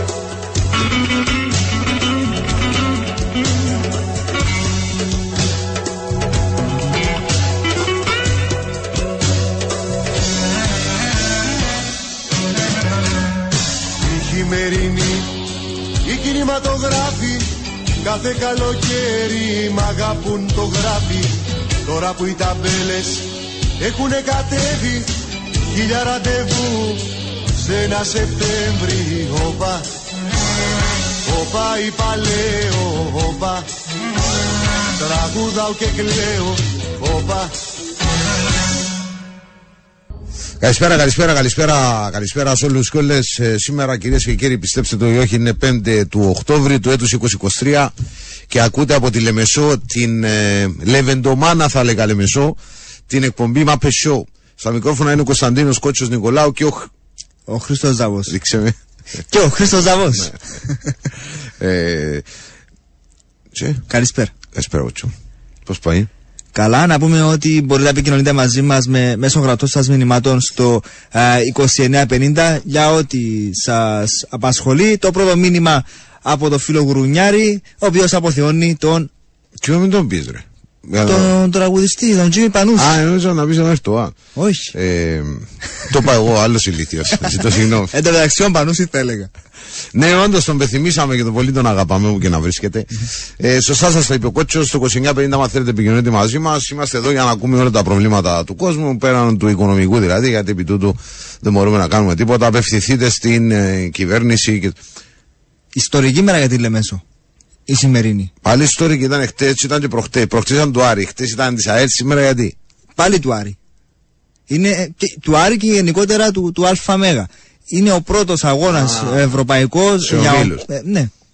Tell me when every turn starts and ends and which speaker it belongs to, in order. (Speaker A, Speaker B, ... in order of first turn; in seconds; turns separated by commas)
Speaker A: 14.0-15.4, Speaker A: 16.0-21.3, Speaker A: 21.9-25.1, Speaker A: 25.7-29.9, Speaker A: 31.2-33.7, Speaker A: 35.0-37.5, Speaker B: 40.6-47.9, Speaker B: 48.5-56.9, Speaker C: 57.5-58.3, Speaker B: 58.3-58.8, Speaker C: 59.3-60.8, Speaker B: 61.6-62.2, Speaker B: 63.5-63.8, Speaker C: 63.9-64.3, Speaker B: 64.5-65.1, Speaker B: 65.7-66.1, Speaker C: 66.5-79.1, Speaker B: 79.6-81.3, Speaker C: 81.0-83.0, Speaker B: 82.8-84.2, Speaker C: 84.3-84.7, Speaker B: 84.7-87.9, Speaker C: 87.9-89.3, Speaker B: 89.9-104.8, Speaker C: 105.7-107.0, Speaker C: 107.7-108.3, Speaker B: 108.4-112.5, Speaker C: 113.0-113.6, Speaker C: 114.5-121.1, Speaker B: 118.7-119.2, Speaker B: 120.0-120.7